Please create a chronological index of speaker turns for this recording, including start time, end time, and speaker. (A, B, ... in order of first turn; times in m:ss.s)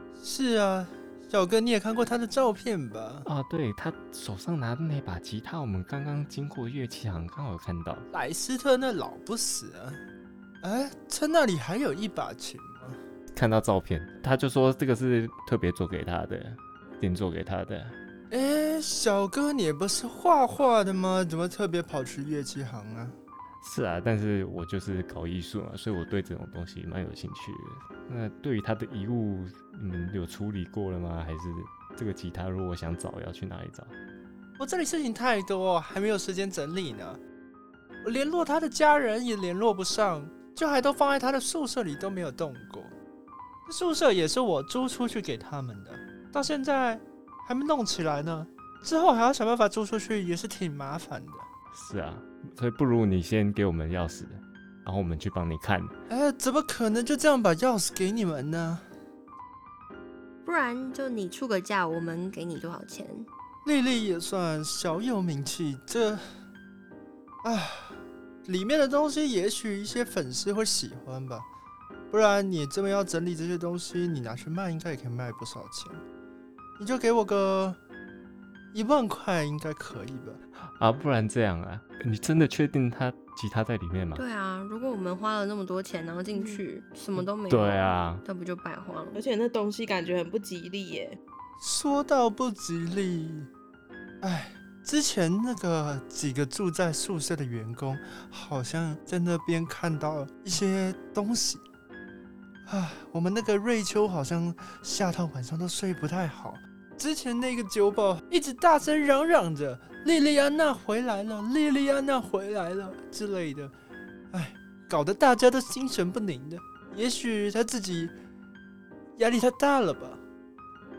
0:00.2-0:03.3 A
0:03.2-0:08.1 B
0:08.1-0:10.0 A
0:10.6-0:13.0 A
0:13.3-0:18.0 B
0:18.3-0:23.2 A
0:23.6-0:33.9 B
0:34.6-0:37.2 A
0:38.0-0:42.9 A
0:43.6-0:51.5 A
0:51.7-0:55.9 B
0:56.1-0:58.9 A
1:00.4-1:03.3 C
1:03.6-1:06.4 A
1:07.4-1:11.5 A
1:12.1-1:16.0 A
1:16.8-1:17.8 A
1:18.7-1:20.4 A
1:20.8-1:24.2 B
1:24.2-1:29.2 C
1:26.3-1:26.6 D
1:27.2-1:28.2 B
1:29.1-1:31.2 D
1:31.6-1:33.5 A
1:34.2-1:41.6 A
1:42.6-1:53.7 A
1:54.3-1:58.1 A
1:59.2-2:00.2 A